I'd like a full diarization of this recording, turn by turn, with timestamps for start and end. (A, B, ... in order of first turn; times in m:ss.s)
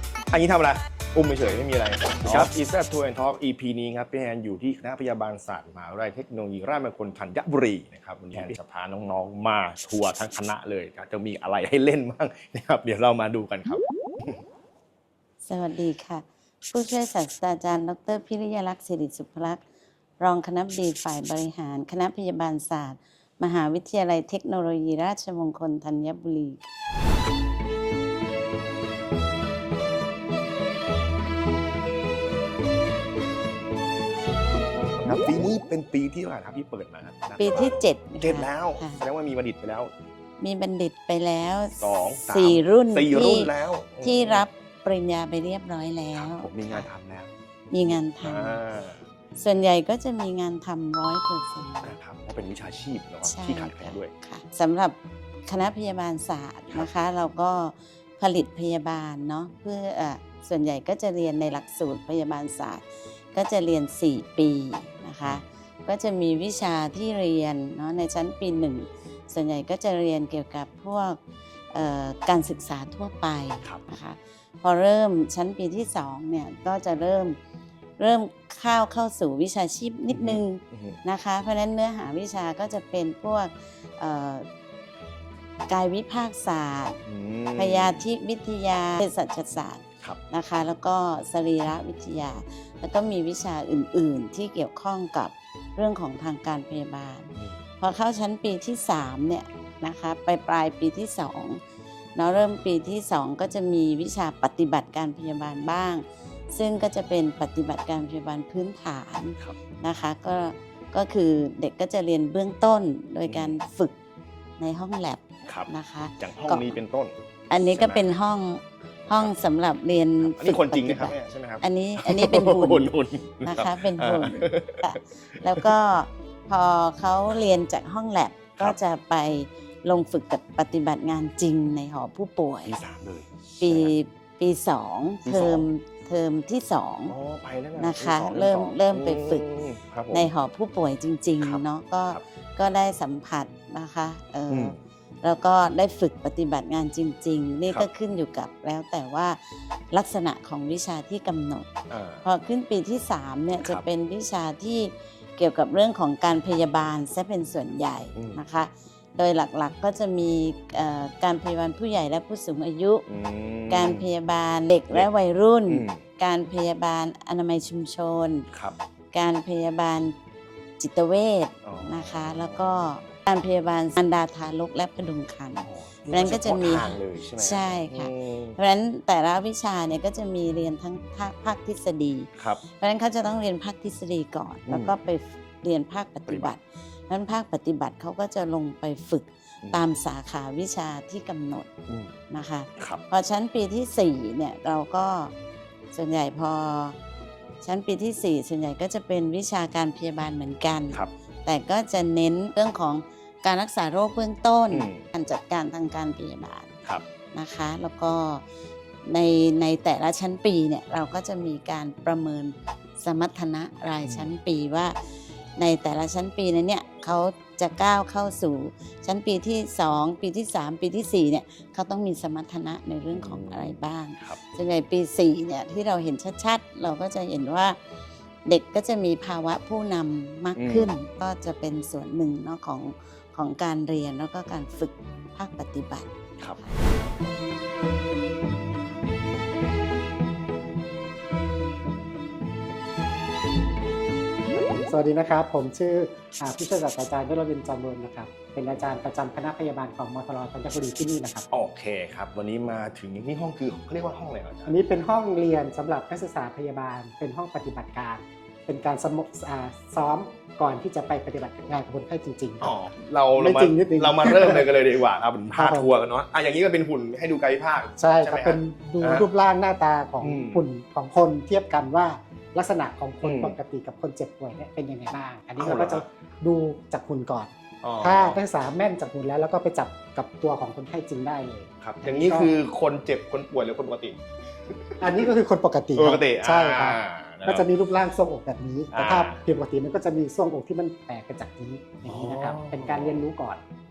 0:00.3-0:14.4 A
0:15.4-0:19.6 B
0:20.2-0:26.7 B
0:35.0-0:39.9 A
0:37.4-0:39.0 B
0:40.4-0:46.9 B
0:41.8-0:44.5 A
0:46.2-0:49.0 A
0:47.7-0:48.6 B
0:49.4-0:52.0 B
0:51.8-0:54.1 A
0:53.2-1:11.2 B
1:11.7-1:17.4 B
1:13.6-1:13.9 A
1:18.0-1:24.5 B
1:20.1-1:21.0 A
1:25.7-1:27.0 B
1:27.1-1:28.1 A
1:27.6-1:41.6 B
1:42.2-1:53.9 B
1:53.3-1:53.6 A
1:54.6-1:56.8 B
1:55.5-1:58.1 A
1:57.5-2:02.9 B
1:59.1-1:59.4 A
2:00.2-2:05.7 A
2:03.4-2:12.8 B
2:12.6-2:14.0 A
2:13.6-2:17.2 B
2:15.2-2:15.7 A
2:17.1-2:20.3 A
2:17.8-2:19.5 B
2:20.1-2:31.7 B
2:21.4-2:22.2 A
2:24.5-2:24.8 A
2:31.9-2:32.2 A
2:32.2-2:43.0 B
2:33.6-2:33.9 A
2:38.2-2:38.4 A
2:43.1-2:44.1 A
2:43.7-2:48.5 B
2:45.7-2:46.0 A
2:48.5-2:48.8 A
2:49.1-2:50.2 B
2:50.8-3:11.7 B
2:51.6-2:53.2 A
2:55.6-2:58.6 A
3:04.7-3:04.9 A
3:06.3-3:06.6 A
3:11.9-3:12.2 A
3:12.3-3:15.3 B
3:15.9-3:17.0 B
3:17.6-3:26.8 B
3:24.7-3:25.1 A
3:27.3-3:28.4 B
3:29.0-3:35.0 B
3:34.0-3:34.3 A
3:35.6-3:47.8 B
3:43.1-3:44.4 A
3:48.5-3:56.8 B
3:50.6-3:50.9 A
4:04.7-4:11.5 C
4:11.5-4:14.8 A
4:14.7-4:22.7 C
4:22.6-4:29.3 A
4:23.4-4:24.7 C
4:25.5-4:25.9 C
4:28.0-4:42.5 C
4:30.2-4:30.6 A
4:33.2-4:33.6 A
4:35.6-4:36.1 A
4:37.8-4:38.4 A
4:41.8-4:45.3 A
4:45.0-4:53.6 C
4:46.0-4:47.7 A
4:48.9-4:49.4 A
4:52.1-4:53.2 A